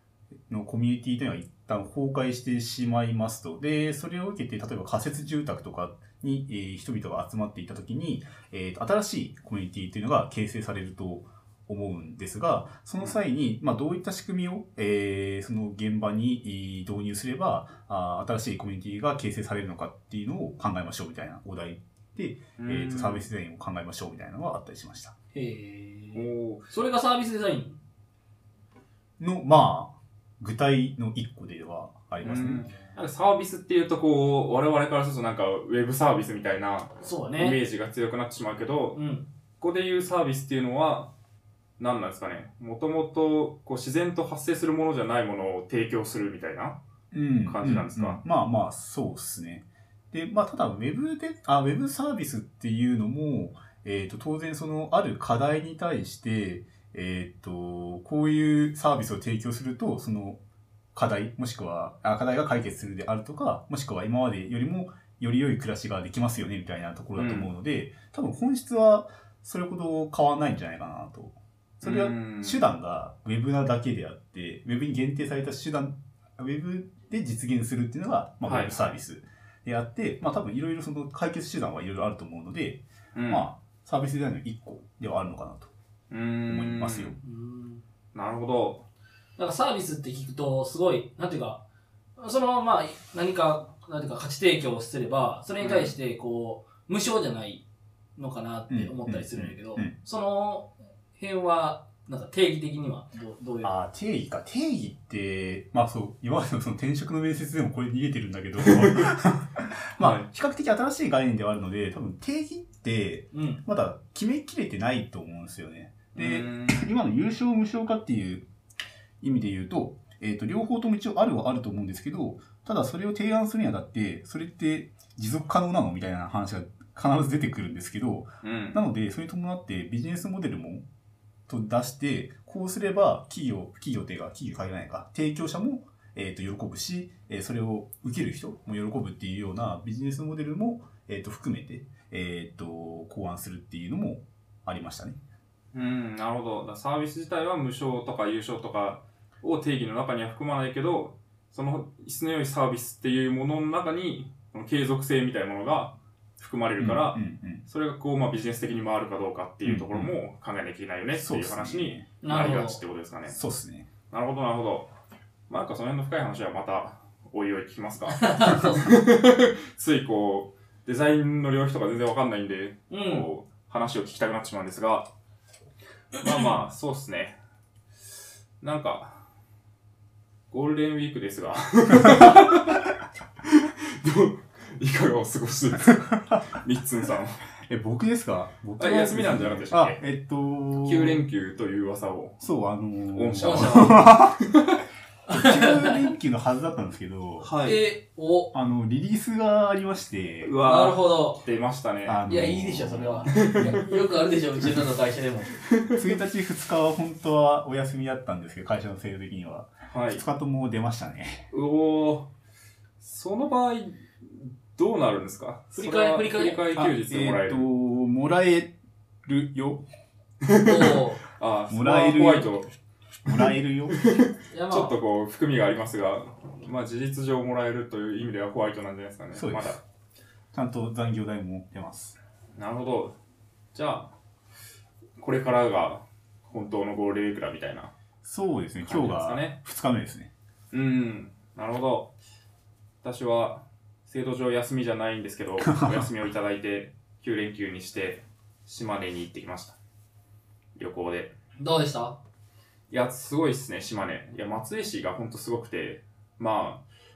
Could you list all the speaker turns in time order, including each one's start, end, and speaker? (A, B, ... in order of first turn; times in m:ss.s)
0:00.5-0:25.1 A
0:22.6-0:23.2 B
0:25.3-0:27.8 C
0:26.1-0:26.7 B
0:29.2-0:32.6 A
0:32.2-0:39.0 B
0:37.0-0:37.6 C
0:38.9-0:39.3 C
0:39.6-0:41.1 B
0:41.8-0:46.8 B
0:47.1-1:00.4 A
0:47.4-0:48.2 B
1:00.9-1:25.7 A
1:07.2-1:07.5 B
1:11.8-1:12.6 B
1:18.4-1:18.8 B
1:23.1-1:23.5 B
1:26.1-1:27.2 B
1:26.5-1:27.2 A
1:27.2-1:27.8 C
1:28.1-1:28.8 B
1:29.4-1:31.6 C
1:32.2-1:37.6 C
1:35.6-1:35.9 B
1:38.2-1:43.7 C
1:38.7-1:39.9 A
1:43.6-1:58.4 A
1:48.7-1:49.1 B
1:50.0-1:50.3 B
1:53.3-1:53.6 C
1:56.1-1:56.9 B
1:59.2-2:10.8 A
2:08.4-2:08.8 B
2:11.5-2:25.2 A
2:25.7-2:43.4 B
2:36.8-2:37.6 A
2:39.6-2:40.2 A
2:41.2-2:42.1 A
2:42.2-2:42.8 C
2:43.3-2:43.9 A
2:44.1-2:44.9 B
2:45.5-2:55.1 B
2:48.1-2:48.9 C
2:52.9-2:53.3 C
2:56.2-2:57.4 B
2:58.6-2:59.2 B
3:00.5-3:02.8 B
3:03.5-3:07.4 B
3:07.6-3:11.2 A
3:08.8-3:10.0 B
3:10.8-3:12.4 B
3:12.4-3:14.4 A
3:13.1-3:14.6 B
3:13.4-3:14.0 C
3:15.3-3:16.1 C
3:15.3-3:17.5 A
3:17.4-3:17.8 B
3:17.6-3:18.5 C
3:18.5-3:20.6 A
3:20.4-3:22.2 B
3:20.6-3:21.4 C
3:22.0-3:23.6 A
3:22.3-3:25.6 C
3:23.3-3:23.8 B
3:25.7-3:26.0 B
3:25.9-3:31.4 A
3:29.9-3:30.2 B
3:31.5-3:32.3 B
3:33.0-3:37.7 B
3:35.8-3:36.6 C
3:36.7-3:38.7 A
3:39.2-3:39.8 A
3:40.4-3:42.7 B
3:40.6-3:41.2 C
3:41.7-3:42.6 A
3:43.2-3:44.0 A
3:43.3-3:49.8 B
3:44.5-3:45.0 C
3:49.3-3:49.8 A
3:50.5-3:52.2 A
3:52.6-3:53.2 B
3:53.7-3:54.1 B
3:55.2-3:57.9 B
3:58.2-4:00.3 A
3:58.8-3:59.6 B
4:00.7-4:02.1 B
4:03.0-4:09.8 B
4:05.6-4:06.1 A
4:10.8-4:11.3 B
4:11.6-4:12.2 C
4:12.9-4:16.8 B